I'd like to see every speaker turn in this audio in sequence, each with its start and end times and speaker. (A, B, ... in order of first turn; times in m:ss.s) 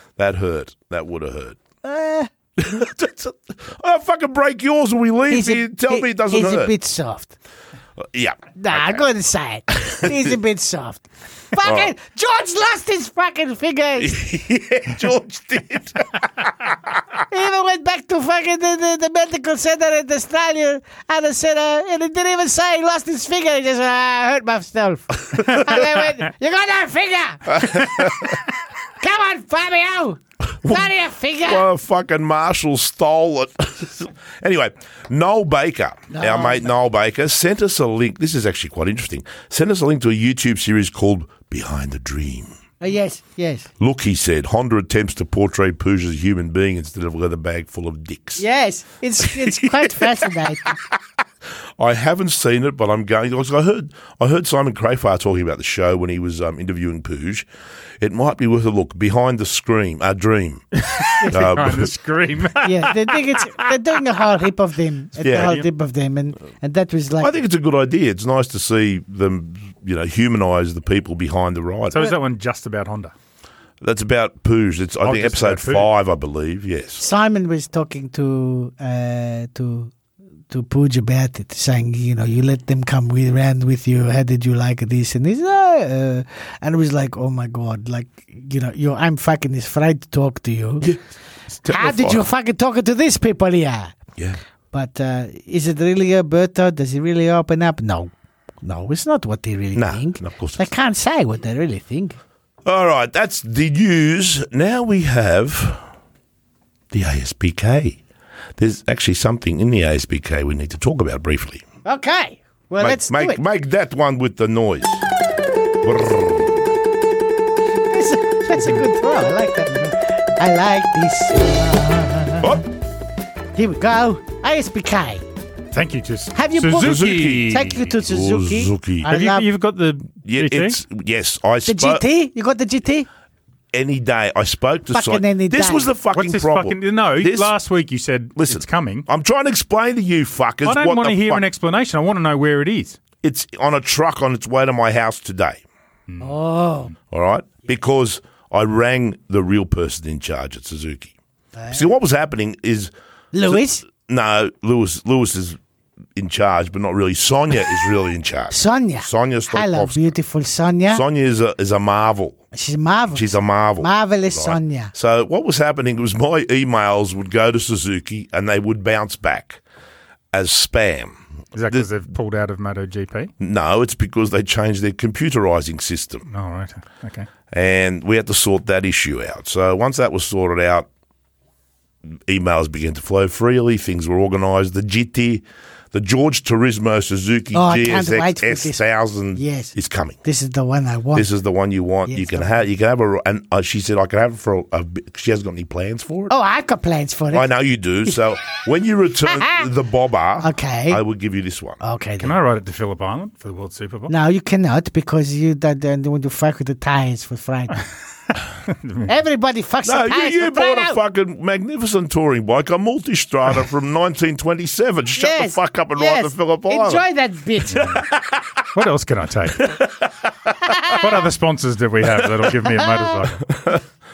0:00.2-0:01.6 A
0:01.8-0:02.3 B
0:02.6-0:06.7 A
0:05.3-0:07.4 B
0:08.0-0:09.0 A
0:08.6-0:14.3 B
0:09.8-0:10.3 A
0:11.6-0:11.9 A
0:14.0-0:17.0 A
0:17.3-0:28.4 B
0:27.5-0:28.4 A
0:29.0-0:31.7 B
0:30.6-0:42.6 A
0:36.1-0:36.7 B
0:42.8-0:43.7 B
0:43.8-0:48.4 A
0:48.4-0:50.8 B
0:49.2-0:51.0 A
0:51.8-0:57.5 A
0:58.0-1:00.7 A
1:00.8-1:03.7 C
1:01.2-1:01.5 B
1:01.3-1:01.9 A
1:02.6-1:07.4 B
1:05.2-1:05.6 A
1:05.3-1:05.7 C
1:07.2-1:12.1 A
1:11.9-1:13.1 C
1:13.8-1:17.0 A
1:15.0-1:15.9 C
1:17.0-1:19.9 B
1:20.5-1:30.9 B
1:31.5-1:32.2 A
1:31.7-1:34.0 B
1:34.7-1:38.1 B
1:38.6-1:42.2 B
1:39.8-1:40.7 A
1:42.6-1:45.8 A
1:46.9-1:48.0 A
1:48.6-1:51.6 A
1:51.8-1:53.4 B
1:52.8-1:55.0 A
1:55.8-1:56.7 A
1:57.9-2:02.6 B
2:02.4-2:02.6 A
2:03.6-2:05.2 B
2:05.7-2:07.8 C
2:06.4-2:09.5 B
2:06.8-2:09.1 A
2:09.1-2:10.8 C
2:10.2-2:12.0 A
2:11.7-2:13.1 B
2:13.7-2:17.5 A
2:14.9-2:15.9 B
2:16.1-2:19.1 C
2:18.4-2:21.4 A
2:20.6-2:23.0 C
2:23.2-2:25.6 A
2:26.1-2:26.4 C
2:26.2-2:27.0 B
2:27.1-2:31.1 A
2:31.6-2:31.8 B
2:31.7-2:32.9 A
2:33.3-2:33.8 B
2:33.4-2:35.6 A
2:36.2-2:40.1 A
2:38.5-2:41.0 B
2:40.9-2:42.4 A
2:42.5-2:44.9 B
2:43.1-2:49.6 A
2:50.3-2:51.2 A
2:51.5-2:53.3 C
2:53.4-2:56.3 A
2:56.3-2:57.3 C
2:57.5-3:00.9 A
3:02.1-3:10.2 A
3:07.5-3:08.8 B
3:09.4-3:11.3 B
3:11.2-3:16.3 A
3:12.1-3:12.6 B
3:16.3-3:17.5 B
3:17.3-3:21.8 A
3:19.3-3:19.7 B
3:20.4-3:21.0 B
3:21.8-3:22.4 B
3:22.2-3:24.1 C
3:24.1-3:27.8 B
3:28.7-3:29.1 C
3:29.1-3:31.0 B
3:29.8-3:37.0 A
3:35.2-3:38.0 B
3:37.7-3:38.0 C
3:37.8-3:38.6 A
3:38.7-3:39.7 C
3:39.6-3:41.0 A
3:40.6-3:41.1 B
3:40.9-3:43.5 C
3:42.2-3:42.6 A
3:42.8-3:43.2 B
3:43.5-3:43.8 A